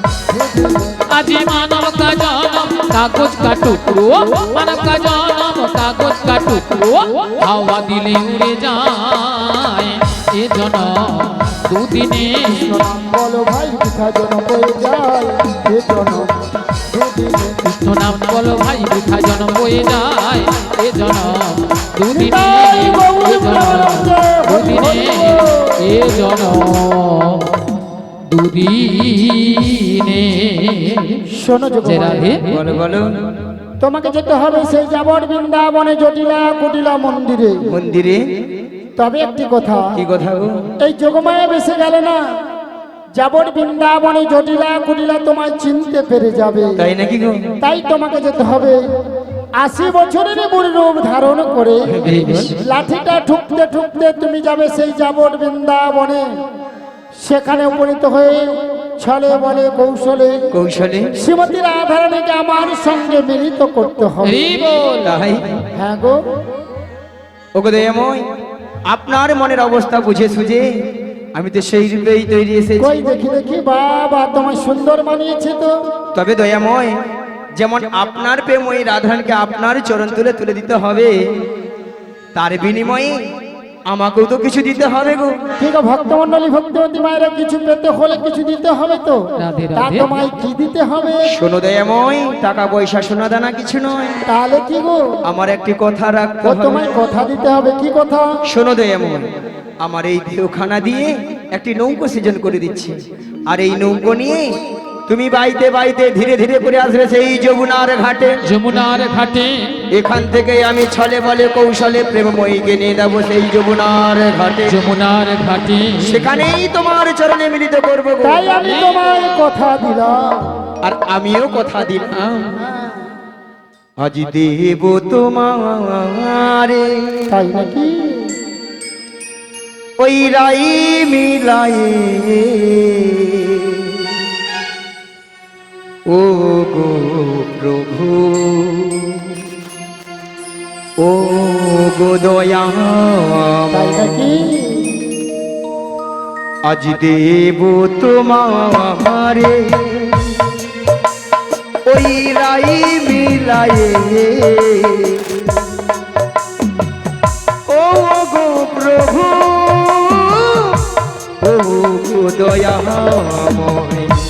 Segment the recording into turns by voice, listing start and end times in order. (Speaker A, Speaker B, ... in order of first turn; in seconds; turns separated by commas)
Speaker A: 0.3-1.0, Speaker B: 1.1-12.8, Speaker A: 12.5-16.3, Speaker A: 16.9-17.6, Speaker B: 17.6-27.6, Speaker A: 22.1-26.1, Speaker B: 28.3-31.2, Speaker A: 31.3-32.4, Speaker B: 31.8-32.6, Speaker C: 32.5-33.5, Speaker A: 33.8-37.7, Speaker C: 37.7-38.2, Speaker A: 39.0-39.9, Speaker C: 39.9-40.6, Speaker A: 40.8-42.2, Speaker A: 43.1-46.8, Speaker C: 46.8-47.5, Speaker A: 47.6-48.8, Speaker A: 49.6-56.2, Speaker C: 51.9-52.6, Speaker A: 57.2-60.4, Speaker C: 60.5-61.1, Speaker A: 61.1-64.5, Speaker B: 64.2-65.2, Speaker C: 65.0-65.5, Speaker A: 65.8-66.2, Speaker C: 67.5-68.2, Speaker C: 68.9-70.7, Speaker C: 71.3-73.0, Speaker A: 72.8-75.7, Speaker C: 76.1-77.0, Speaker C: 77.5-81.1, Speaker C: 82.3-83.1, Speaker C: 83.9-85.3, Speaker A: 85.6-89.2, Speaker B: 89.4-90.1, Speaker A: 89.8-91.3, Speaker C: 91.3-94.2, Speaker A: 94.3-95.0, Speaker C: 95.2-96.9, Speaker A: 96.4-98.3, Speaker C: 98.5-99.2, Speaker C: 99.8-103.0, Speaker C: 103.5-104.5, Speaker C: 105.1-108.3, Speaker B: 108.5-109.8, Speaker C: 109.9-114.8, Speaker B: 114.7-116.3, Speaker C: 116.0-118.5, Speaker A: 118.2-120.3, Speaker B: 118.7-119.0, Speaker C: 120.8-122.5, Speaker A: 122.7-122.9, Speaker C: 124.0-127.3, Speaker A: 127.3-128.3, Speaker C: 130.0-134.2, Speaker C: 136.1-139.5, Speaker C: 141.0-144.3, Speaker A: 143.7-144.9, Speaker C: 146.7-150.5, Speaker C: 151.9-155.5, Speaker C: 157.7-164.2